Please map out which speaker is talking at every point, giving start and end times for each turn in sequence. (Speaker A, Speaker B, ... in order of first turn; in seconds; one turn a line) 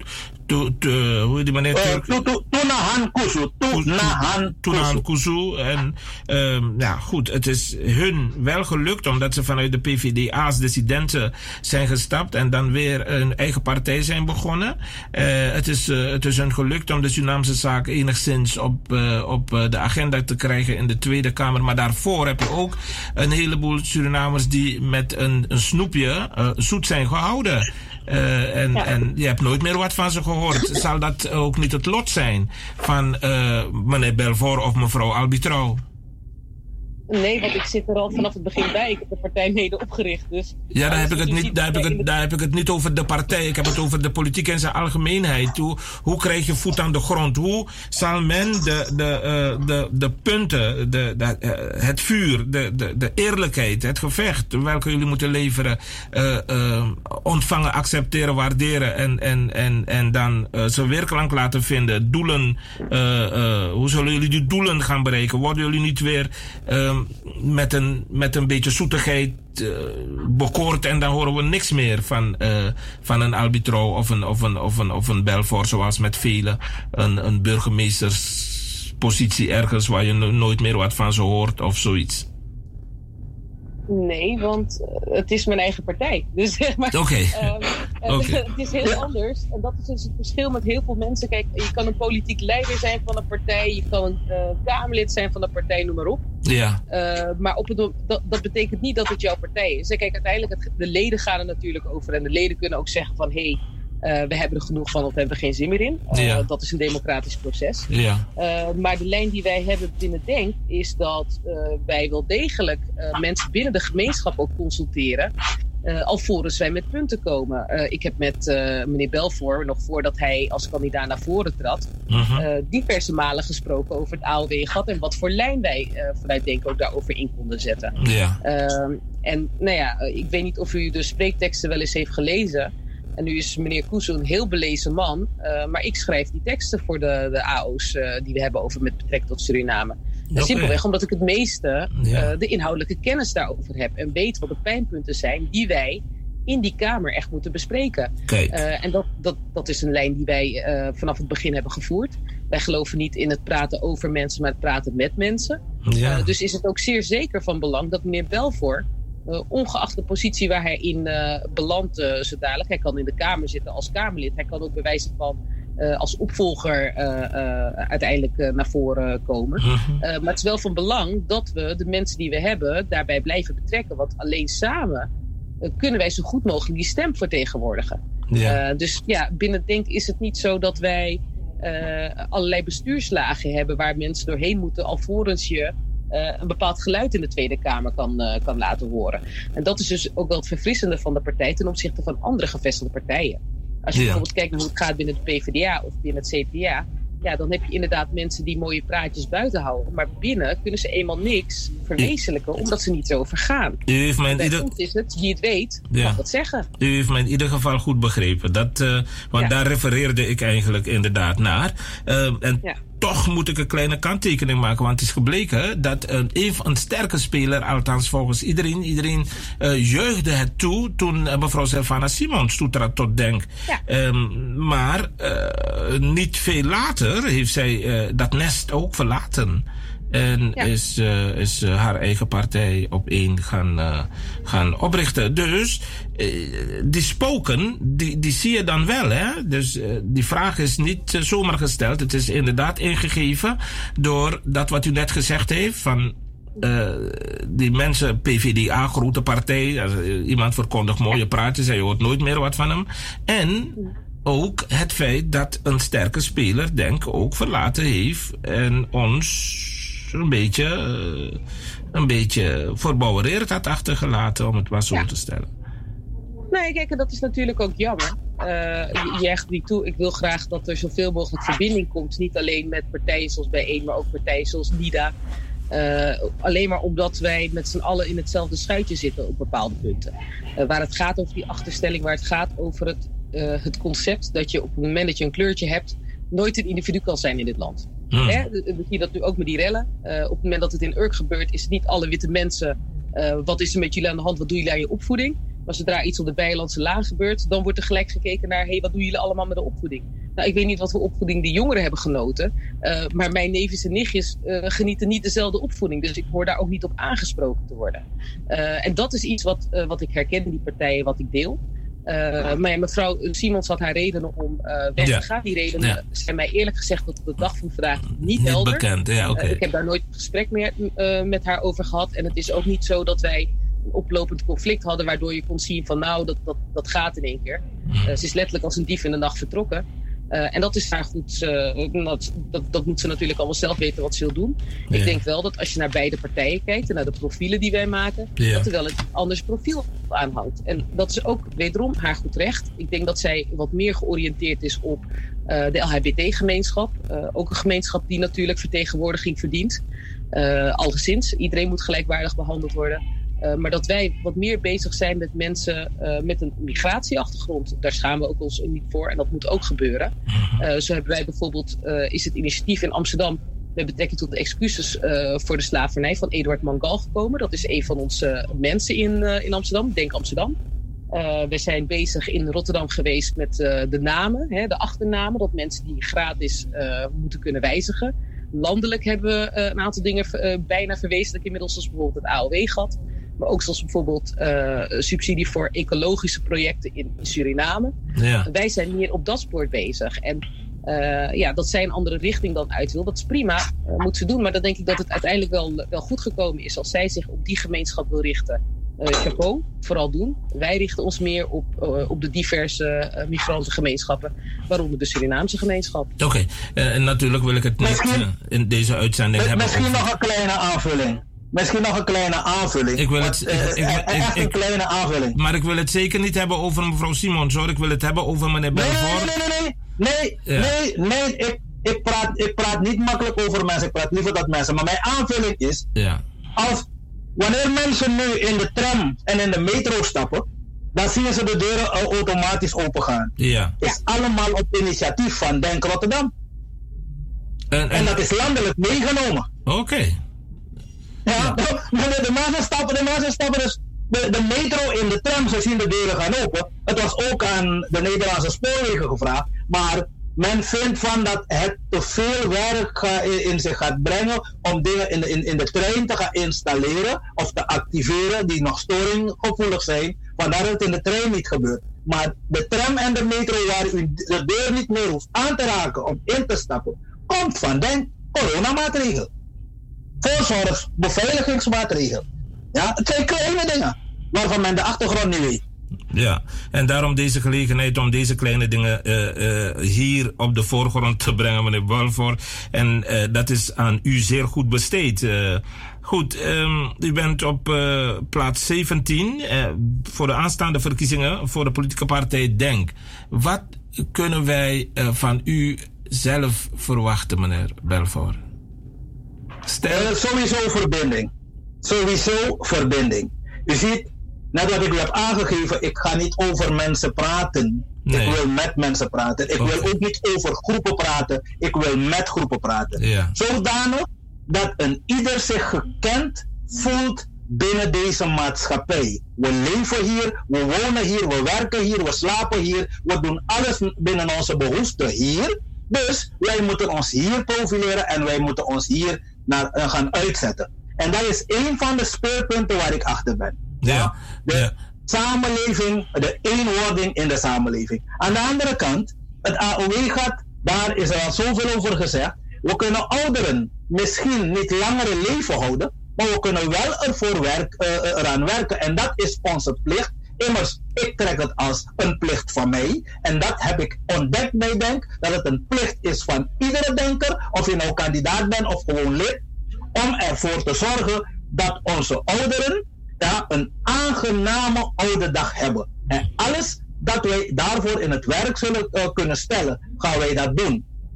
Speaker A: 0.5-2.2
Speaker B: 1.7-5.0
Speaker A: 3.7-35.8
Speaker C: 37.1-42.1
Speaker A: 40.7-82.2
Speaker C: 83.9-96.2
Speaker A: 86.9-89.0
Speaker A: 96.4-96.8
Speaker C: 96.9-107.8
Speaker A: 106.1-106.4
Speaker A: 107.9-108.2
Speaker C: 108.4-115.3
Speaker C: 115.8-127.9
Speaker A: 122.1-122.4
Speaker A: 128.0-128.4
Speaker C: 128.4-175.1
Speaker A: 140.3-140.8
Speaker A: 141.9-142.3
Speaker A: 148.3-148.6
Speaker A: 155.9-156.3
Speaker A: 169.6-170.0
Speaker C: 175.7-203.8
Speaker A: 178.3-178.6
Speaker A: 193.9-194.2
Speaker A: 203.9-204.7
Speaker C: 204.3-206.6
Speaker A: 205.9-206.2
Speaker A: 206.8-261.4
Speaker A: 261.9-265.5
Speaker C: 266.5-275.1
Speaker C: 275.7-349.8
Speaker A: 288.1-288.4
Speaker A: 315.0-315.3
Speaker A: 318.1-319.6
Speaker A: 327.9-328.2
Speaker A: 334.9-335.2
Speaker A: 338.4-338.7
Speaker C: 350.3-370.6
Speaker A: 360.3-360.6
Speaker C: 371.1-387.9
Speaker A: 388.2-388.5
Speaker C: 388.4-406.1
Speaker A: 406.2-410.1
Speaker B: 407.8-408.2
Speaker B: 409.4-415.4
Speaker A: 413.0-414.6
Speaker A: 415.3-419.3
Speaker B: 418.7-425.8
Speaker A: 420.5-420.7
Speaker A: 425.9-426.2
Speaker B: 426.6-433.3
Speaker A: 433.4-433.7
Speaker B: 433.8-436.3
Speaker A: 437.7-438.2
Speaker B: 437.9-439.5
Speaker A: 439.6-440.2
Speaker B: 441.2-469.3
Speaker B: 470.2-475.6
Speaker A: 476.1-498.4
Speaker A: 499.7-500.1
Speaker B: 499.9-501.3
Speaker B: 501.8-559.4
Speaker A: 508.1-508.4
Speaker A: 509.6-509.9
Speaker A: 513.0-513.3
Speaker A: 533.8-534.7
Speaker B: 559.9-570.8